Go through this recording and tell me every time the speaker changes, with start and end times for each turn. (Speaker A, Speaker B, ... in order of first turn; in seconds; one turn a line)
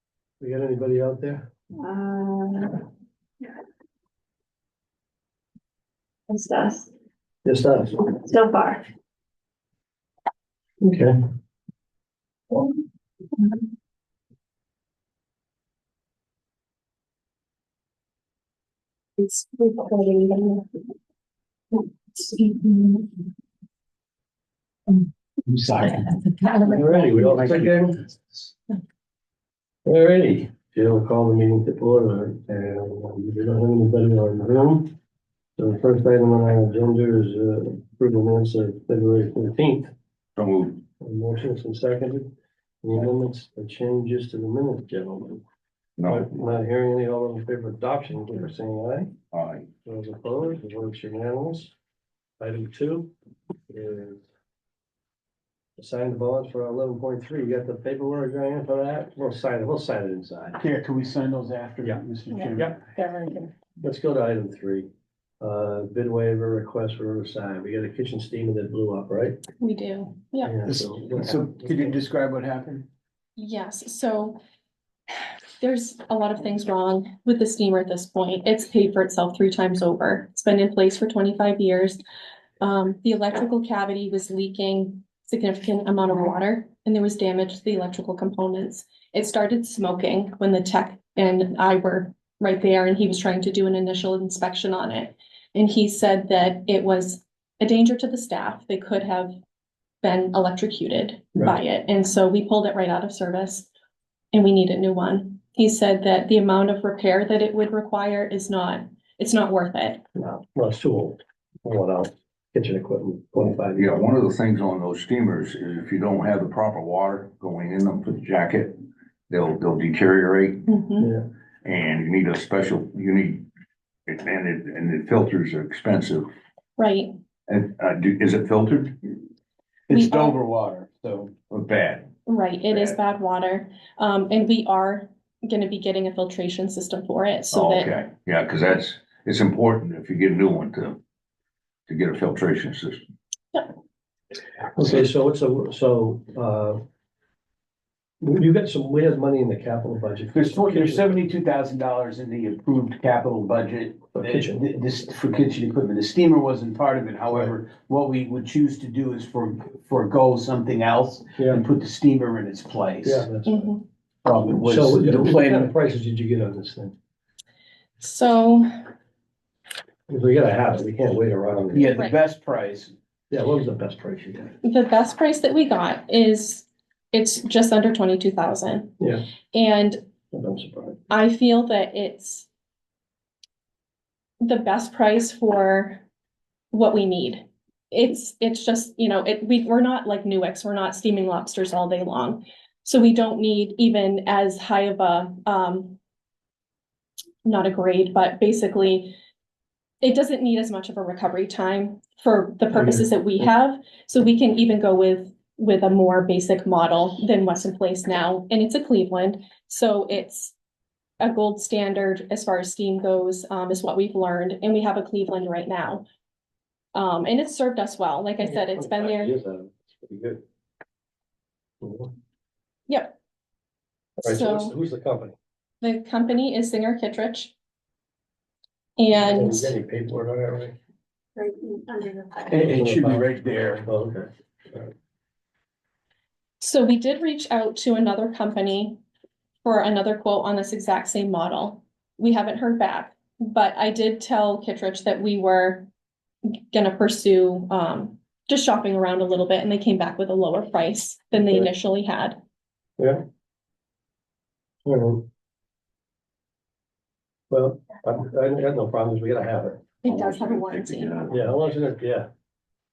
Speaker A: 0.4-1.5
Speaker B: 1.8-2.8
Speaker B: 6.3-6.9
Speaker A: 7.5-8.1
Speaker B: 8.1-8.9
Speaker A: 10.8-11.2
Speaker B: 19.2-20.6
Speaker B: 22.4-23.0
Speaker C: 25.4-26.3
Speaker A: 26.6-28.0
Speaker A: 29.9-34.9
Speaker A: 35.6-39.9
Speaker D: 40.4-40.8
Speaker A: 41.0-42.3
Speaker A: 42.8-45.4
Speaker D: 46.0-46.3
Speaker A: 46.1-49.1
Speaker D: 49.3-49.7
Speaker A: 49.9-51.7
Speaker A: 52.4-53.1
Speaker A: 53.7-54.2
Speaker A: 55.8-60.6
Speaker C: 60.6-62.8
Speaker A: 61.8-64.9
Speaker A: 65.4-69.4
Speaker E: 69.6-70.6
Speaker A: 70.4-72.0
Speaker C: 70.7-72.9
Speaker E: 73.4-74.4
Speaker E: 75.6-82.0
Speaker E: 82.6-99.3
Speaker E: 100.0-103.7
Speaker E: 104.3-110.0
Speaker A: 110.2-113.9
Speaker D: 113.7-118.8
Speaker D: 119.3-120.7
Speaker E: 120.7-121.1
Speaker A: 121.0-121.2
Speaker D: 121.6-123.5
Speaker D: 124.1-126.3
Speaker E: 126.8-127.1
Speaker D: 127.5-129.0
Speaker C: 129.9-131.3
Speaker E: 129.9-130.4
Speaker D: 131.5-132.1
Speaker E: 132.3-137.9
Speaker D: 132.7-133.0
Speaker D: 137.5-141.0
Speaker D: 141.9-143.0
Speaker A: 144.8-146.8
Speaker A: 148.2-151.2
Speaker C: 150.3-163.3
Speaker A: 154.2-154.7
Speaker A: 161.4-161.6
Speaker A: 163.0-163.7
Speaker E: 163.5-163.8
Speaker C: 164.2-165.7
Speaker A: 164.6-166.9
Speaker E: 168.0-168.7
Speaker A: 170.1-171.9
Speaker C: 171.7-172.9
Speaker A: 173.3-174.6
Speaker E: 174.6-178.9
Speaker A: 179.0-179.2
Speaker E: 179.5-180.0
Speaker A: 180.3-181.0
Speaker E: 181.1-182.5
Speaker E: 184.4-186.0
Speaker E: 186.7-196.0
Speaker E: 197.4-199.2
Speaker E: 200.0-210.6
Speaker A: 202.7-203.5
Speaker E: 211.2-216.0
Speaker E: 216.9-219.3
Speaker A: 218.4-220.4
Speaker A: 221.8-222.1
Speaker E: 222.9-223.2
Speaker E: 224.2-224.7
Speaker A: 224.2-225.3
Speaker E: 225.8-227.5
Speaker E: 229.0-229.7
Speaker A: 229.2-230.8
Speaker B: 231.4-232.5
Speaker C: 232.5-233.9
Speaker A: 232.6-234.9
Speaker E: 236.6-239.0
Speaker E: 239.6-245.9
Speaker E: 246.5-252.4
Speaker A: 254.9-255.2
Speaker A: 257.5-259.9
Speaker E: 260.0-261.3
Speaker D: 260.1-261.4
Speaker A: 261.3-262.3